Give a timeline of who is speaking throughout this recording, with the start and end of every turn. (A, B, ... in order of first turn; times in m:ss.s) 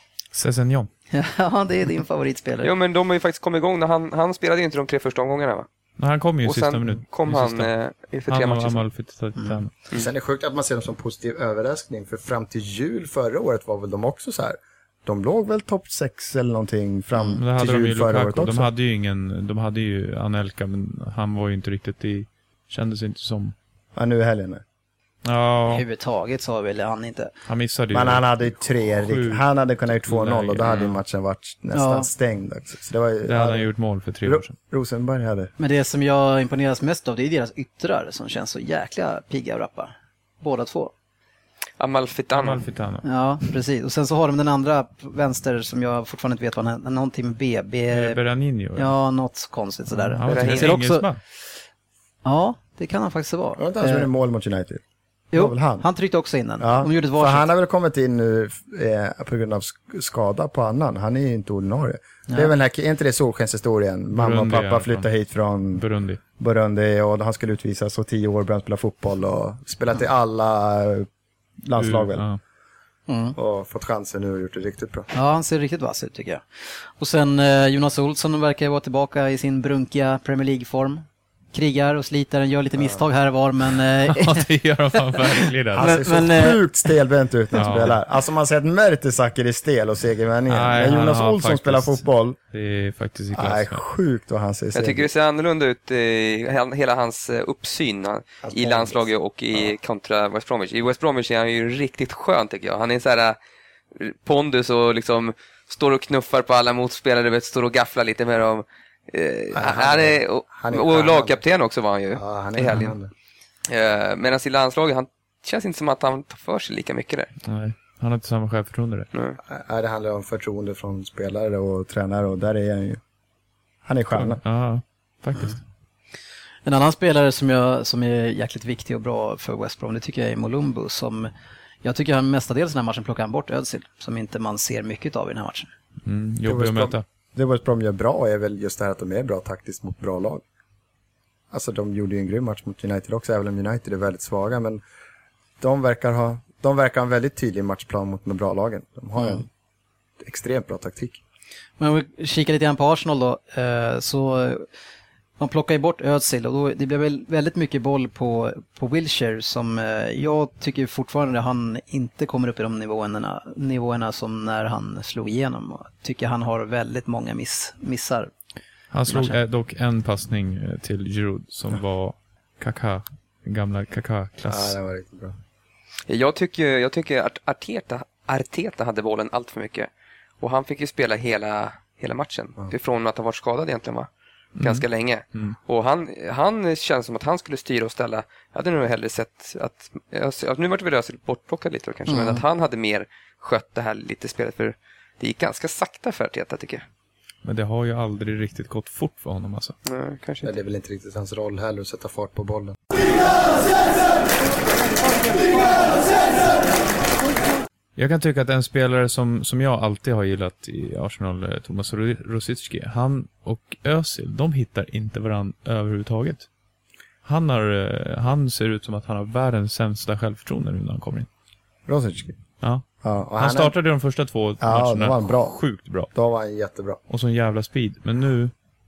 0:00.3-0:00.9 A
0:01.1-0:02.7 B
0:02.6-0:05.7 C
0:06.0-0:07.7 A
0:06.4-0:08.8 C
0:08.3-0:09.7 A
0:09.9-0:18.7 D
0:17.4-0:23.6 A
0:24.0-0:24.6 D
0:25.2-0:25.8 A
0:25.7-0:27.3 B
0:27.5-0:29.4 A
0:27.9-0:33.7 D
0:30.0-0:31.0 A
0:31.7-0:32.1 B
0:33.3-0:34.6 A
0:34.2-0:35.5 D
0:35.6-0:40.9 B
0:41.8-0:42.6 C
0:42.4-0:43.0 A
0:43.0-0:48.2 B
0:47.9-0:49.0 A
0:48.8-0:51.1 B
0:49.9-0:51.2 A
0:50.2-0:50.7 C
0:52.2-0:54.1 B
0:53.6-0:54.8 D
0:55.3-0:57.5 B
0:55.3-0:55.8 D
0:56.6-1:05.8 D
1:04.1-1:05.1 A
1:05.8-1:06.2 A
1:06.4-1:11.1 D
1:11.6-1:12.2 D
1:11.8-1:12.4 A
1:13.1-1:13.4 B
1:13.4-1:15.1 D
1:15.1-1:26.6 B
1:24.1-1:26.2 A
1:25.8-1:32.4 D
1:27.6-1:27.9 A
1:30.5-1:33.8 A
1:33.3-1:35.1 D
1:34.7-1:43.4 C
1:38.4-1:39.1 D
1:44.0-1:53.0 C
1:49.5-1:51.4 D
1:52.2-1:53.1 D
1:53.7-1:57.3 C
1:57.4-1:59.1 A
1:59.1-1:59.4 C
1:59.5-2:03.0 D
2:03.9-2:04.4 D
2:04.1-2:05.6 A
2:06.6-2:11.3 B
2:11.8-2:15.7 B
2:16.0-2:17.0 A
2:16.5-2:20.4 D
2:21.5-2:24.8 D
2:25.6-2:29.5 D
2:30.2-2:31.2 D
2:31.8-2:34.7 B
2:35.4-2:48.3 B
2:48.9-2:54.8 A
2:49.1-2:49.4 B
2:54.5-2:55.4 D
2:56.1-3:04.1 C
3:04.6-3:05.6 A
3:04.6-3:16.8 C
3:12.1-3:12.4 B
3:17.4-3:19.8 A
3:19.9-3:20.5 C
3:20.4-3:22.8 D
3:28.0-3:36.5 A
3:37.2-3:41.3 A
3:41.9-3:42.4 D
3:43.0-3:43.8 D
3:43.4-3:46.1 A
3:44.6-3:45.6 D
3:46.1-3:47.0 D
3:47.1-3:48.5 A